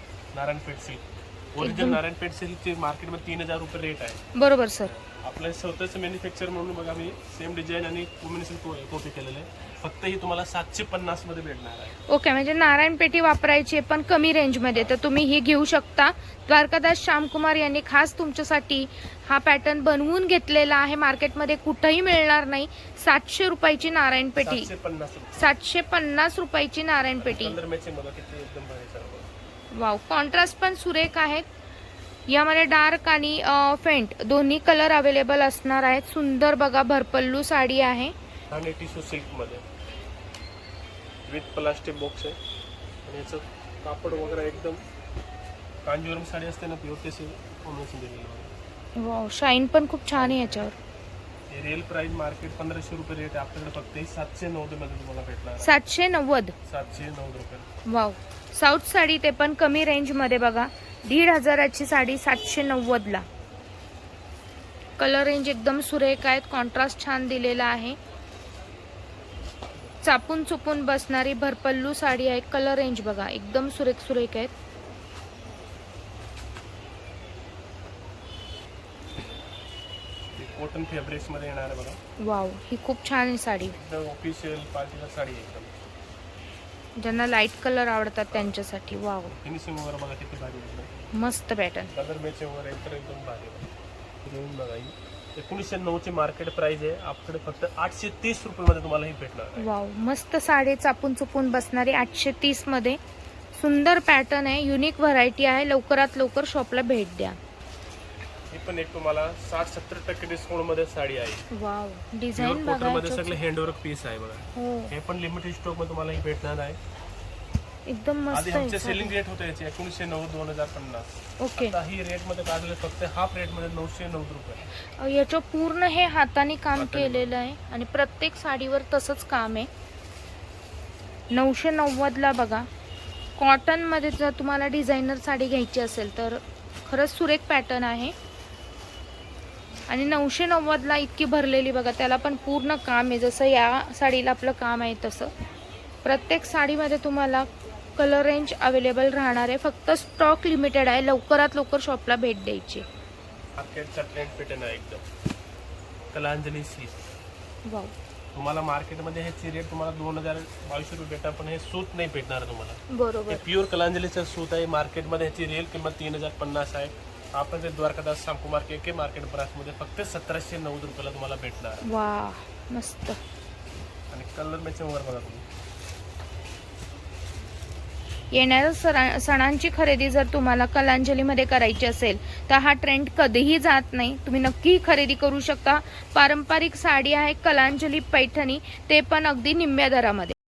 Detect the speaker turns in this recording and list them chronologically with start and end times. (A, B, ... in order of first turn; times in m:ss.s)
0:00.3-0:04.2 A
0:01.6-0:02.0 B
0:04.3-0:04.9 B
0:04.8-0:12.0 A
0:12.1-0:24.7 B
0:24.4-0:25.5 A
0:25.3-0:27.6 B
0:27.2-0:29.3 A
0:29.7-0:31.4 B
0:32.3-0:38.1 B
0:38.5-0:39.6 A
0:41.3-0:42.4 A
0:43.0-0:44.8 A
0:45.8-0:48.5 A
0:49.0-0:50.8 B
0:50.1-0:50.7 A
0:51.5-0:55.8 A
0:55.6-0:56.5 B
0:56.6-0:57.7 A
0:57.8-1:03.2 B
1:05.0-1:08.0 B
1:10.0-1:14.5 B
1:20.3-1:22.0 A
1:22.2-1:23.8 B
1:23.7-1:25.8 A
1:27.0-1:29.3 B
1:29.2-1:30.9 A
1:31.1-1:31.9 B
1:31.9-1:33.7 A
1:34.2-1:39.7 A
1:39.6-1:43.0 B
1:43.5-1:47.4 B
1:48.5-1:51.5 A
1:51.5-1:53.4 B
1:52.4-1:56.8 A
1:54.5-1:54.9 B
1:57.8-1:59.1 B
1:58.3-2:04.7 A
2:01.4-2:01.8 B
2:05.0-2:09.7 B
2:06.8-2:07.3 A
2:11.3-2:12.7 B
2:13.4-2:18.1 B
2:19.9-2:25.3 B
2:26.0-2:32.8 B
2:33.6-2:35.0 A
2:36.1-2:37.0 A
2:37.6-2:37.9 B
2:38.3-2:51.9 A
2:42.9-2:43.4 B
2:51.8-2:53.2 B
2:54.1-2:55.4 A
2:58.3-3:10.3 B